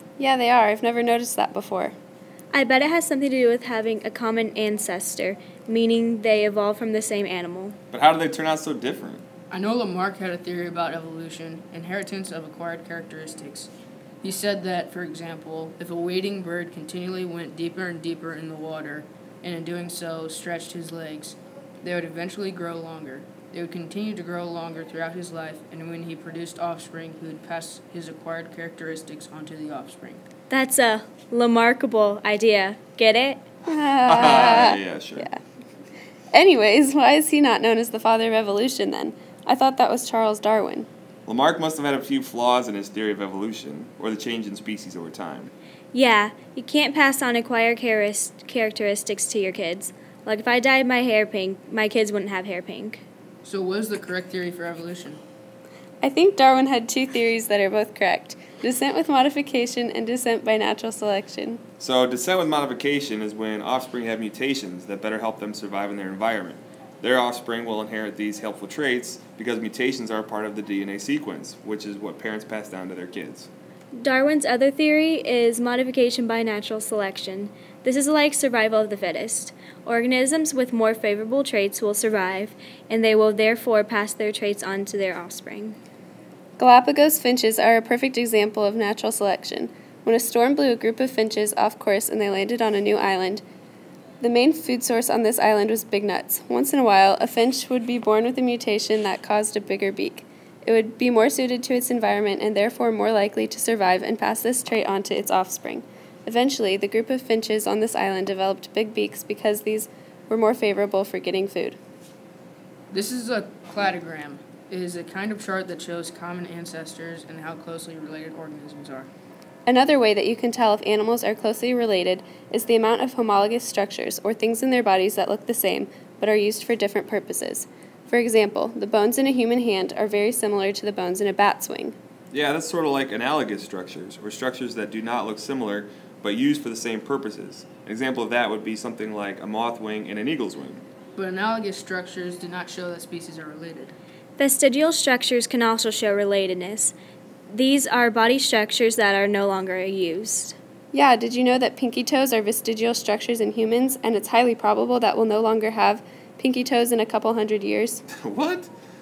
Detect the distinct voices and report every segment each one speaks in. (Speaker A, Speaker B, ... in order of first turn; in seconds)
Speaker A: 0.2-1.9, 33.6-35.4, 36.3-40.9, 56.0-61.6, 86.6-93.4, 94.2-111.8, 119.7-131.9, 150.9-158.0
Speaker B: 2.5-7.8, 30.5-33.4, 45.9-53.0, 74.0-85.8, 144.4-146.9, 147.5-150.6
Speaker C: 7.9-9.2, 34.0-35.3, 41.2-45.5, 61.8-73.5, 132.3-140.8, 158.1-158.7
Speaker D: 9.5-13.7, 14.2-30.2, 53.4-55.2, 112.9-119.1, 141.2-143.9